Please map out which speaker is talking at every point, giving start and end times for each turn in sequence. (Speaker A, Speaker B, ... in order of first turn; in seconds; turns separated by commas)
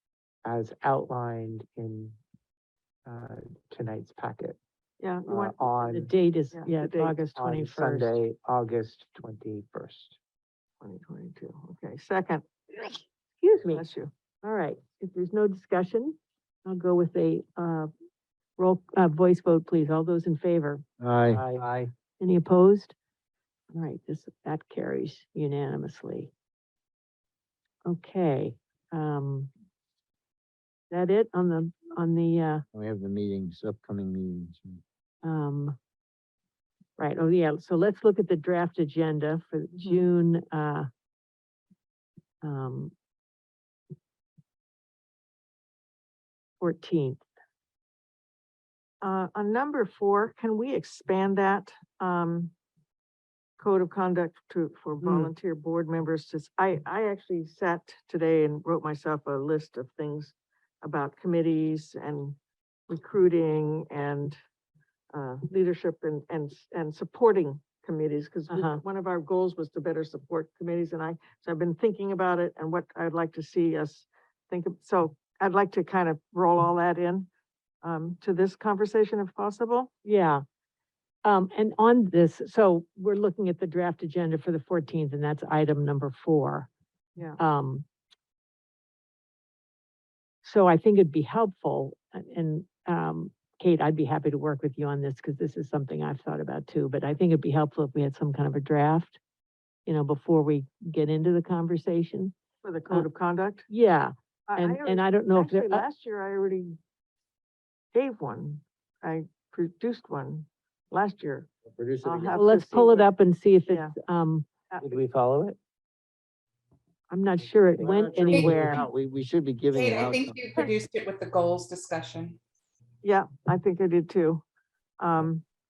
Speaker A: 0.4-2.2, Speaker A: 3.1-4.6, Speaker B: 5.0-5.7, Speaker A: 5.3-6.1, Speaker C: 5.8-8.2, Speaker B: 6.5-7.2, Speaker A: 7.3-10.2, Speaker B: 10.8-13.0, Speaker C: 13.4-13.8, Speaker B: 13.7-14.1, Speaker C: 14.4-17.9, Speaker C: 18.6-20.8, Speaker D: 21.0-21.9, Speaker A: 21.3-21.6, Speaker C: 22.2-22.9, Speaker C: 23.7-26.3, Speaker C: 27.9-29.5, Speaker C: 30.9-32.6, Speaker D: 32.7-34.8, Speaker C: 35.2-35.8, Speaker C: 37.0-40.9, Speaker B: 39.8-40.1, Speaker C: 42.4-42.9, Speaker C: 46.6-47.2, Speaker B: 49.0-52.5, Speaker B: 53.6-62.4, Speaker C: 55.0-55.3, Speaker B: 62.9-64.4, Speaker B: 65.1-77.3, Speaker C: 68.5-68.8, Speaker B: 77.8-79.9, Speaker C: 80.0-80.4, Speaker C: 81.2-86.7, Speaker C: 87.4-87.8, Speaker C: 90.4-99.2, Speaker C: 99.9-102.3, Speaker B: 102.6-103.7, Speaker C: 103.7-105.8, Speaker B: 104.5-106.8, Speaker B: 107.9-111.5, Speaker D: 111.7-112.4, Speaker B: 112.0-113.1, Speaker C: 112.3-114.5, Speaker B: 113.7-113.9, Speaker A: 114.8-115.4, Speaker C: 117.1-118.8, Speaker A: 117.8-118.7, Speaker B: 117.8-118.7, Speaker D: 118.3-120.6, Speaker E: 118.3-118.6, Speaker E: 119.7-122.4, Speaker B: 123.0-124.4, Speaker B: 125.0-125.4